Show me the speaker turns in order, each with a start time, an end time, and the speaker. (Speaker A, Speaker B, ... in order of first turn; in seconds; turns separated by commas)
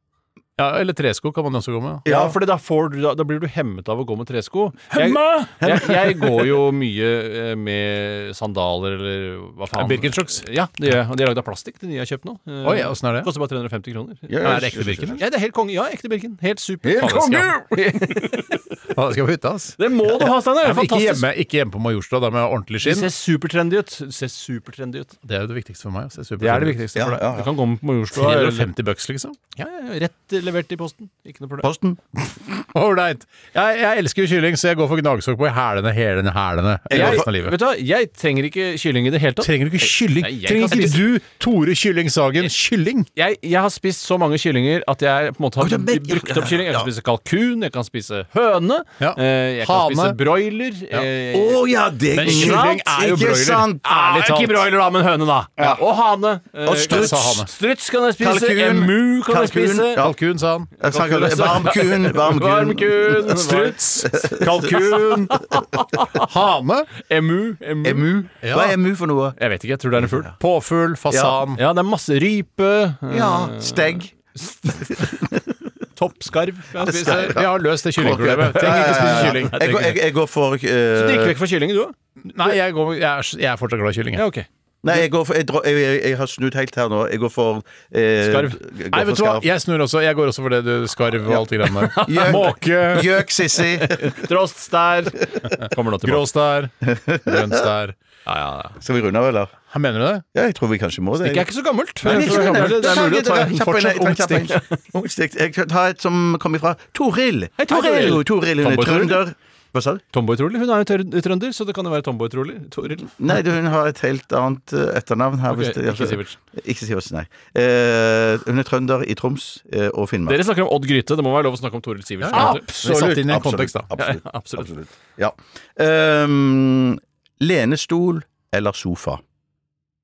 Speaker A: 0.6-2.1, Speaker B: 2.0-2.4, Speaker C: 2.0-14.6, Speaker A: 4.9-5.5, Speaker B: 5.6-5.9, Speaker A: 9.7-10.4, Speaker A: 12.6-13.3, Speaker B: 14.3-15.2, Speaker A: 14.4-15.2, Speaker C: 15.2-18.6, Speaker B: 16.8-17.4, Speaker A: 17.0-17.5, Speaker A: 18.9-23.1, Speaker C: 19.8-21.2, Speaker C: 22.8-25.1, Speaker A: 25.2-26.9, Speaker C: 26.4-28.7, Speaker B: 26.9-27.5, Speaker A: 28.1-29.4, Speaker C: 29.6-31.7, Speaker B: 31.6-32.0, Speaker A: 32.7-37.5, Speaker B: 36.9-37.2, Speaker C: 36.9-41.0, Speaker A: 39.4-43.1, Speaker C: 43.1-51.6, Speaker B: 45.6-46.9, Speaker A: 49.0-50.2, Speaker B: 51.3-54.0, Speaker A: 52.1-54.6, Speaker C: 52.2-52.9, Speaker C: 53.8-60.0, Speaker B: 56.6-57.4, Speaker A: 56.9-57.5, Speaker B: 58.2-60.1, Speaker A: 60.0-60.7, Speaker B: 60.8-63.3, Speaker C: 60.8-63.8, Speaker A: 63.2-65.6, Speaker B: 64.0-64.7, Speaker C: 64.4-66.2, Speaker A: 66.1-66.9, Speaker C: 67.0-68.1, Speaker B: 67.8-69.3, Speaker A: 68.4-68.8, Speaker C: 69.4-70.3, Speaker B: 70.0-70.3, Speaker A: 70.4-71.6, Speaker B: 71.1-71.4, Speaker C: 71.5-75.4, Speaker B: 73.1-74.1, Speaker C: 75.9-77.4, Speaker B: 76.8-81.3, Speaker A: 77.0-79.8, Speaker C: 78.0-80.0, Speaker C: 80.9-81.9, Speaker A: 82.2-84.2, Speaker C: 84.1-84.5, Speaker B: 84.8-89.5, Speaker C: 88.2-88.6, Speaker A: 88.9-93.2, Speaker C: 91.6-92.6, Speaker B: 92.0-94.2, Speaker C: 93.8-96.3, Speaker A: 96.0-97.9, Speaker B: 96.8-97.7, Speaker C: 98.2-98.8, Speaker B: 98.8-99.5, Speaker A: 99.7-100.2, Speaker B: 100.3-101.5, Speaker C: 101.2-104.8, Speaker B: 102.0-110.0, Speaker A: 102.0-104.5, Speaker C: 107.6-109.2, Speaker C: 110.1-113.1, Speaker B: 113.2-120.4, Speaker C: 115.5-116.4, Speaker C: 120.3-122.7, Speaker A: 122.2-123.9, Speaker B: 122.3-129.2, Speaker C: 124.0-124.7